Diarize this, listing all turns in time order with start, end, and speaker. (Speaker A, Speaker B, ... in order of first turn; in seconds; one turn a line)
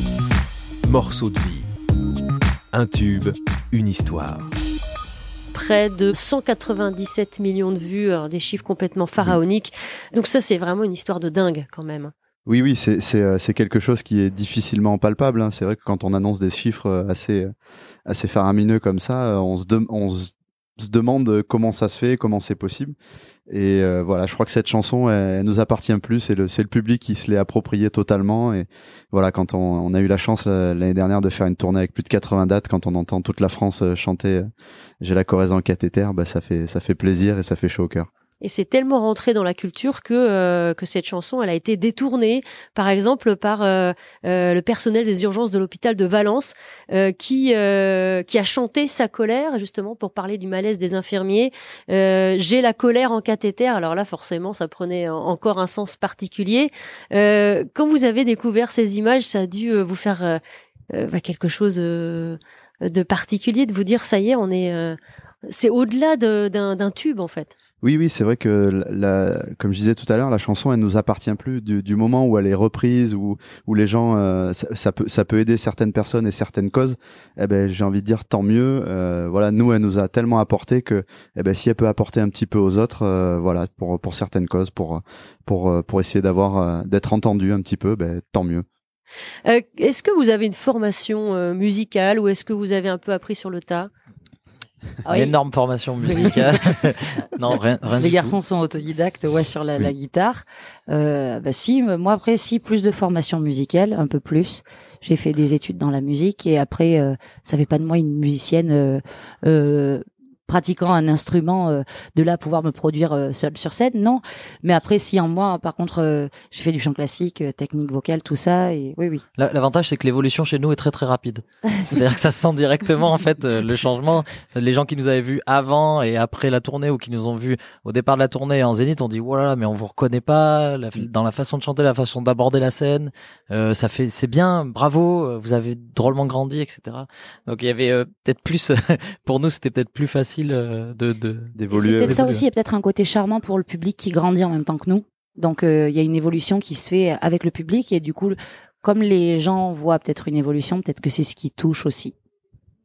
Speaker A: 0.9-1.7
Speaker A: 2.7-4.5
Speaker B: 5.5-12.1
Speaker C: 12.4-17.5
Speaker C: 18.1-22.9
Speaker C: 23.5-34.5
Speaker C: 35.0-38.1
Speaker B: 38.4-60.4
Speaker B: 60.9-67.5
Speaker C: 67.8-88.6
Speaker B: 89.4-93.9
Speaker B: 95.1-95.3
Speaker D: 95.1-98.4
Speaker E: 98.0-119.2
Speaker D: 119.4-142.3
Speaker C: 141.5-142.4
Speaker E: 141.7-152.1